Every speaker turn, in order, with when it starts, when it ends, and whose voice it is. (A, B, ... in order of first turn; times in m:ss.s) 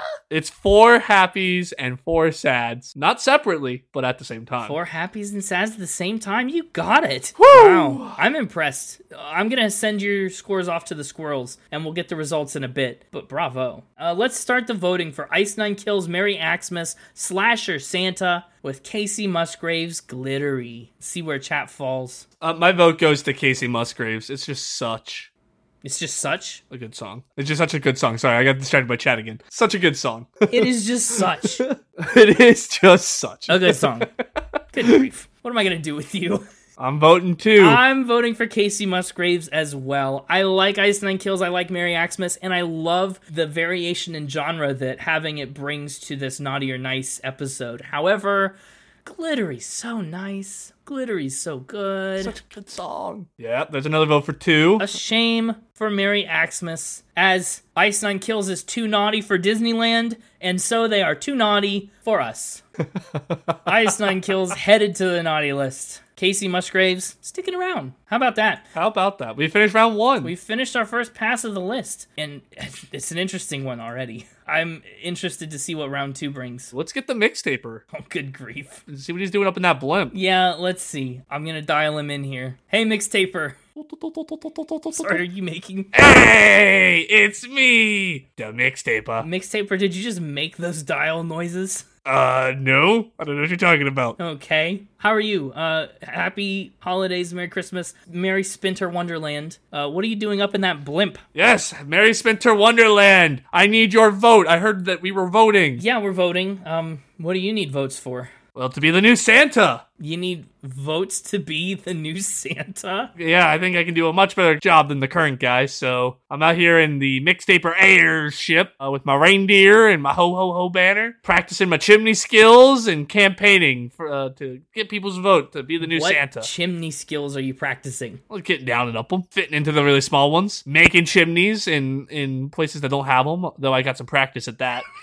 0:00.3-0:04.8 A
0:04.6-0:22.3 B
0:07.4-0:08.2 A
0:22.4-0:25.3 A
0:25.8-0:26.6 B
0:26.7-0:34.0 A
0:30.5-0:31.6 B
0:33.5-0:34.1 B
0:34.7-0:36.4 B
0:36.8-0:37.8 A
0:37.6-0:52.4 B
0:52.2-0:54.8 A
0:54.8-1:02.6 B
1:03.0-1:03.9 A
1:03.6-1:08.6 B
1:08.7-1:10.3 A
1:10.2-1:16.7 B
1:16.7-1:17.8 A
1:17.9-1:18.8 B
1:18.9-1:20.1 A
1:20.1-1:23.6 B
1:23.8-1:25.2 A
1:24.9-1:25.9 B
1:25.9-1:29.3 A
1:29.2-1:31.8 B
1:32.0-1:34.2 A
1:34.2-1:41.2 B
1:41.3-1:45.8 A
1:45.8-1:48.3 B
1:48.5-1:49.8 A
1:50.0-1:53.1 B
1:53.2-2:06.5 A
2:05.8-2:08.2 B
2:08.3-2:14.8 A